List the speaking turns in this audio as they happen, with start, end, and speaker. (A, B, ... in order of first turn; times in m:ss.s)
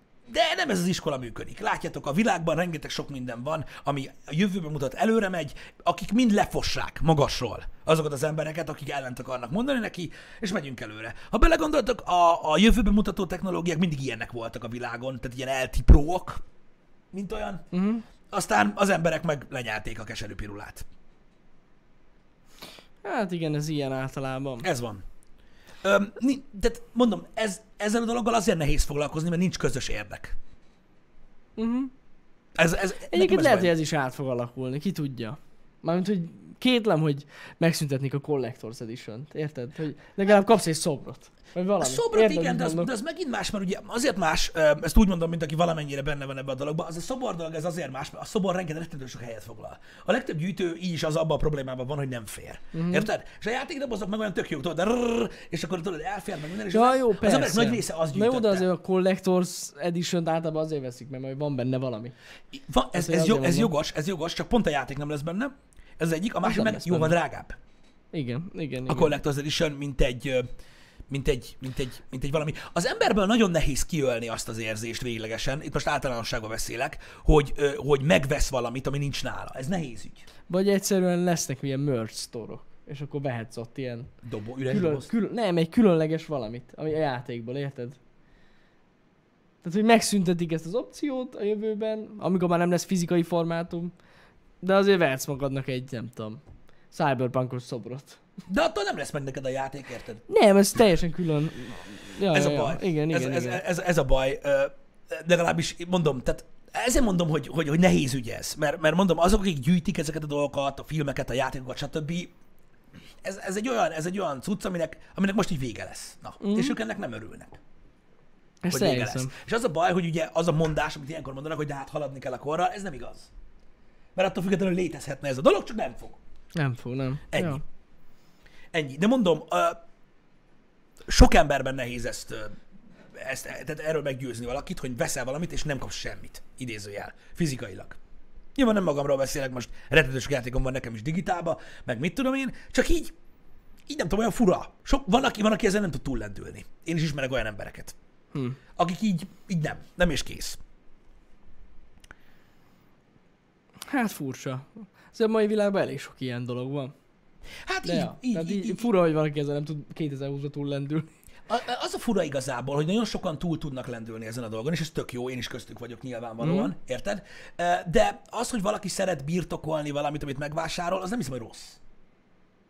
0:00.3-0:16.4 A
0:17.1-0:17.6 A
0:17.7-0:18.0 B
0:18.3-0:20.8 A
0:23.0-0:24.6 B
0:24.6-0:25.0 A
0:25.8-0:30.4 A
0:31.6-0:31.9 B
0:32.6-0:33.7 A
0:33.1-0:42.9 B
0:41.8-0:58.7 A
0:52.7-0:53.1 B
0:56.7-1:02.1 B
1:02.5-1:07.6 A
1:02.9-1:03.7 B
1:06.4-1:07.2 B
1:08.1-1:09.1 B
1:08.9-1:10.4 A
1:11.1-1:20.2 A
1:20.5-1:24.1 B
1:24.2-1:25.1 A
1:24.7-1:28.0 B
1:29.6-1:33.9 B
1:34.6-1:38.2 B
1:38.5-1:40.2 A
1:40.3-1:43.6 B
1:42.3-1:52.3 A
1:53.2-1:57.6 A
1:56.4-1:56.8 B
1:58.6-1:59.3 B
1:58.7-2:03.3 A
2:04.2-2:06.2 A
2:06.5-2:07.6 B
2:07.3-2:07.6 A
2:08.7-2:09.8 A
2:11.1-2:12.6 A
2:13.1-2:18.0 A
2:18.6-2:23.1 A
2:23.9-2:27.9 A
2:28.3-2:28.6 B
2:28.8-2:30.6 A
2:33.8-2:36.9 B
2:37.6-2:38.9 A
2:37.8-2:41.1 B
2:41.5-2:51.8 A
2:46.4-2:46.7 B